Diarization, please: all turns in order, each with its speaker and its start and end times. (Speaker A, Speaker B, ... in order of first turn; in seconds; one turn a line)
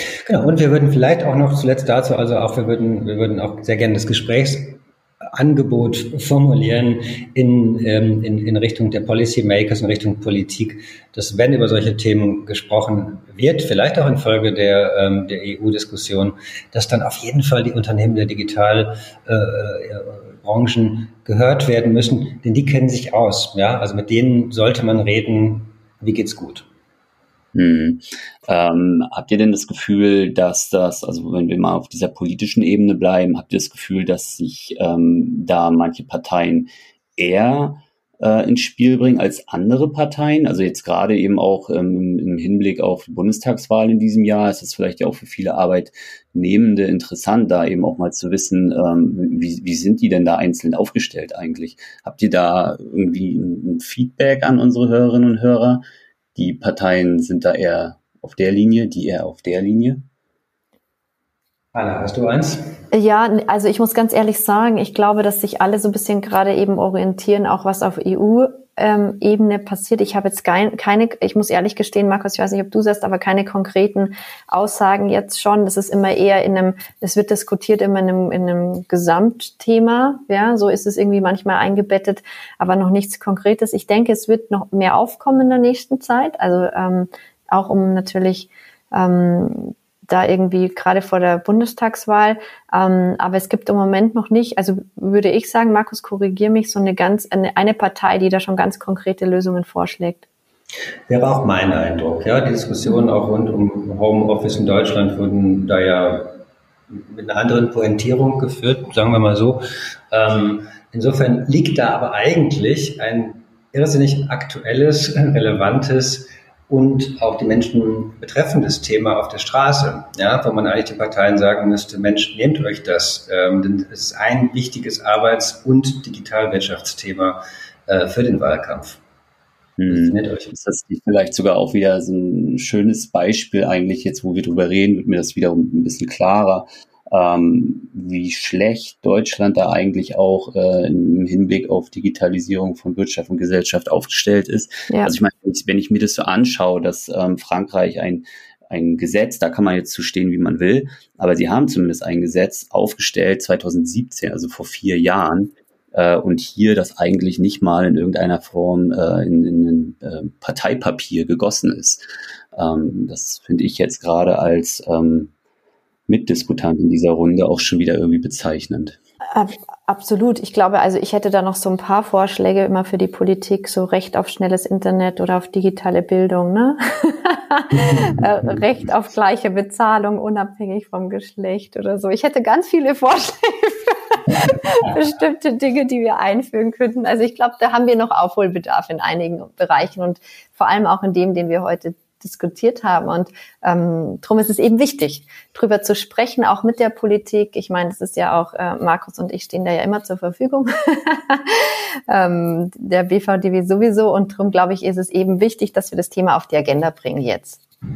Speaker A: 0.3-4.8
Speaker A: 5.3-26.6
Speaker B: 27.6-55.8
Speaker B: 56.4-60.0
Speaker A: 61.7-62.7
Speaker C: 62.9-100.2
Speaker A: 101.1-129.0
Speaker B: 129.8-165.3
Speaker A: 129.9-130.5
Speaker C: 144.9-145.1
Speaker B: 166.1-169.0
Speaker C: 169.3-207.6